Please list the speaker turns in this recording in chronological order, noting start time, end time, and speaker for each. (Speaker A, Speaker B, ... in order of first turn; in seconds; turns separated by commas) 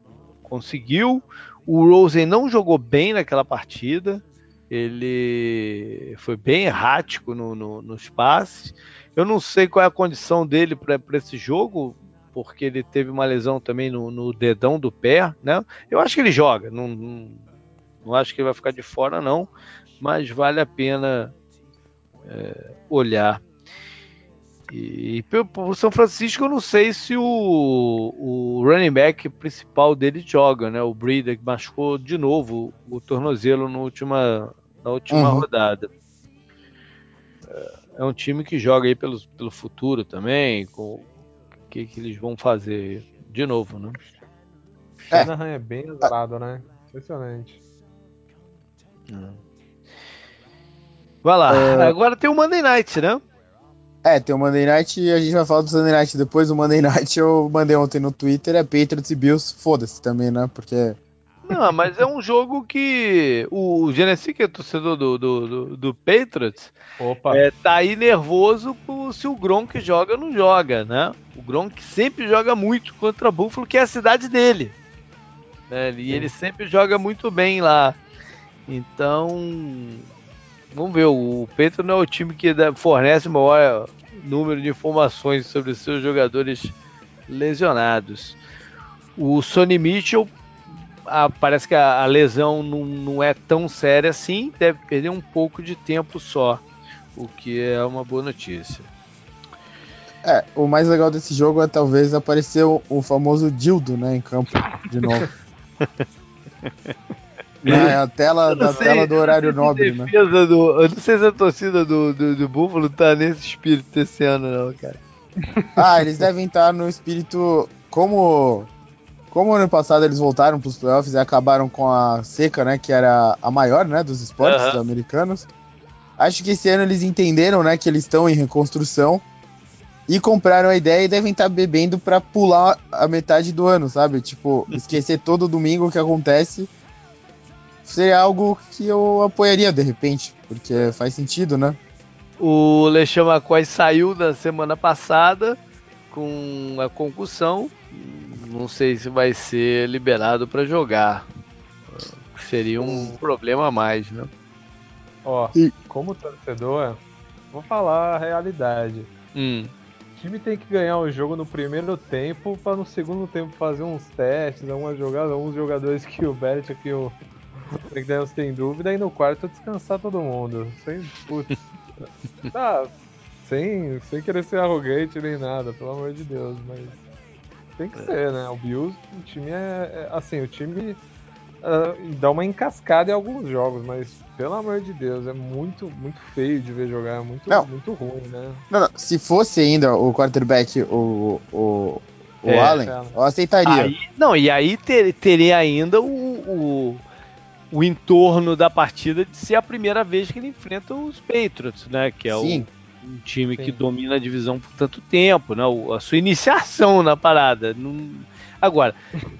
Speaker A: 0.5-17.4, Speaker A: 18.0-19.5, Speaker A: 20.0-21.4, Speaker A: 22.3-23.4, Speaker A: 24.7-35.9, Speaker B: 35.1-35.5, Speaker A: 37.5-41.1, Speaker A: 41.7-44.0, Speaker C: 45.1-47.6, Speaker A: 49.1-49.4, Speaker A: 51.2-53.2, Speaker B: 51.5-52.0, Speaker B: 54.0-61.0, Speaker A: 61.5-66.8, Speaker C: 67.0-67.5, Speaker A: 67.3-74.8, Speaker A: 75.7-78.0, Speaker A: 78.7-80.1, Speaker A: 80.7-86.7, Speaker A: 87.3-88.4, Speaker A: 89.2-90.3, Speaker A: 91.1-96.6, Speaker A: 97.2-98.9, Speaker B: 100.2-105.3, Speaker A: 107.6-108.0, Speaker B: 107.6-110.1, Speaker A: 108.5-115.0, Speaker C: 108.7-109.0, Speaker B: 115.8-118.7, Speaker B: 119.3-125.5, Speaker A: 124.4-124.8, Speaker B: 126.2-129.2, Speaker B: 130.1-136.7, Speaker B: 137.9-141.8, Speaker A: 142.4-145.6, Speaker A: 146.1-151.3, Speaker A: 151.9-154.3, Speaker C: 152.8-153.2, Speaker C: 155.2-157.0, Speaker C: 157.5-159.1, Speaker A: 159.3-159.7, Speaker C: 160.2-167.2, Speaker C: 167.8-171.6, Speaker C: 172.5-172.9, Speaker C: 173.4-177.0, Speaker C: 177.8-181.0, Speaker C: 181.6-188.6, Speaker B: 188.7-193.9, Speaker A: 192.4-192.8, Speaker C: 192.6-193.2, Speaker A: 193.7-197.0, Speaker A: 197.7-209.0, Speaker B: 202.3-202.7